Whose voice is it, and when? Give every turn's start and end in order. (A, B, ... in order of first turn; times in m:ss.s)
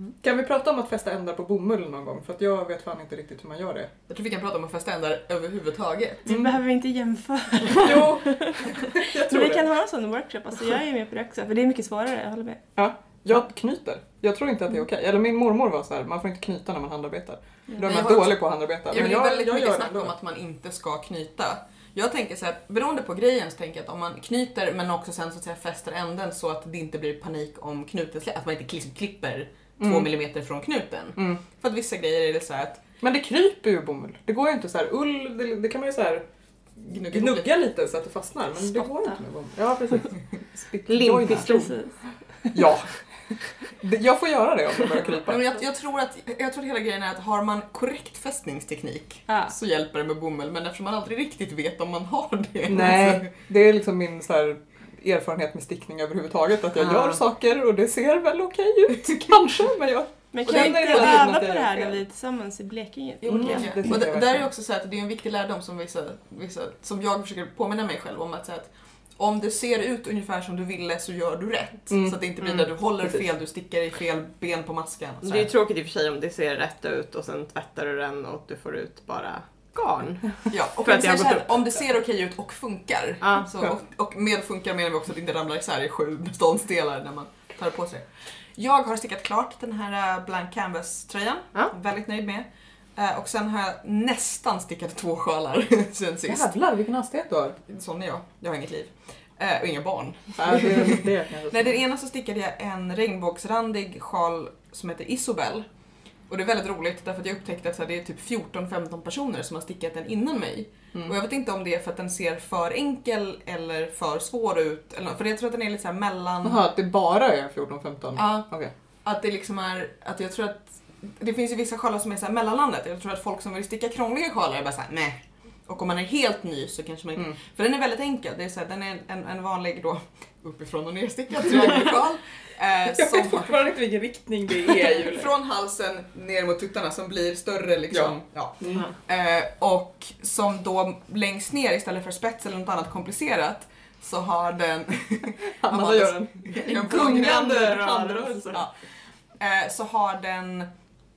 0:00.2-0:03.9 A
0:04.1-0:06.3 B
0:06.2-0:12.6 C
0:07.8-0:09.7 A
0:12.8-0:20.1 A
0:17.8-0:32.8 B
0:29.8-0:30.1 A
0:31.2-0:31.4 A
0:33.0-0:36.2 A
0:36.8-0:41.5 A
0:36.9-0:37.6 B
0:38.7-0:39.2 C
0:40.8-0:41.8 D
0:41.4-0:42.5 C
0:42.5-0:43.0 A
0:43.7-0:45.4 A
0:45.2-0:53.3 B
0:49.3-0:49.5 C
0:52.7-1:02.0 A
0:56.8-0:57.1 D
1:00.3-1:04.0 C
1:00.4-1:01.3 B
1:03.2-1:15.5 B
1:03.3-1:04.5 A
1:11.9-1:13.2 A
1:15.2-1:21.6 D
1:20.5-1:36.5 B
1:23.2-1:23.5 D
1:36.3-1:37.6 A
1:37.7-1:45.6 B
1:40.4-1:41.7 A
1:46.3-1:56.6 B
1:56.4-1:58.7 A
1:58.1-1:58.5 B
1:59.0-2:13.7 B
2:12.9-2:15.3 A
2:14.6-2:27.6 B
2:17.9-2:18.9 A
2:25.6-2:28.6 A
2:26.7-2:28.6 D
2:29.4-2:30.7 B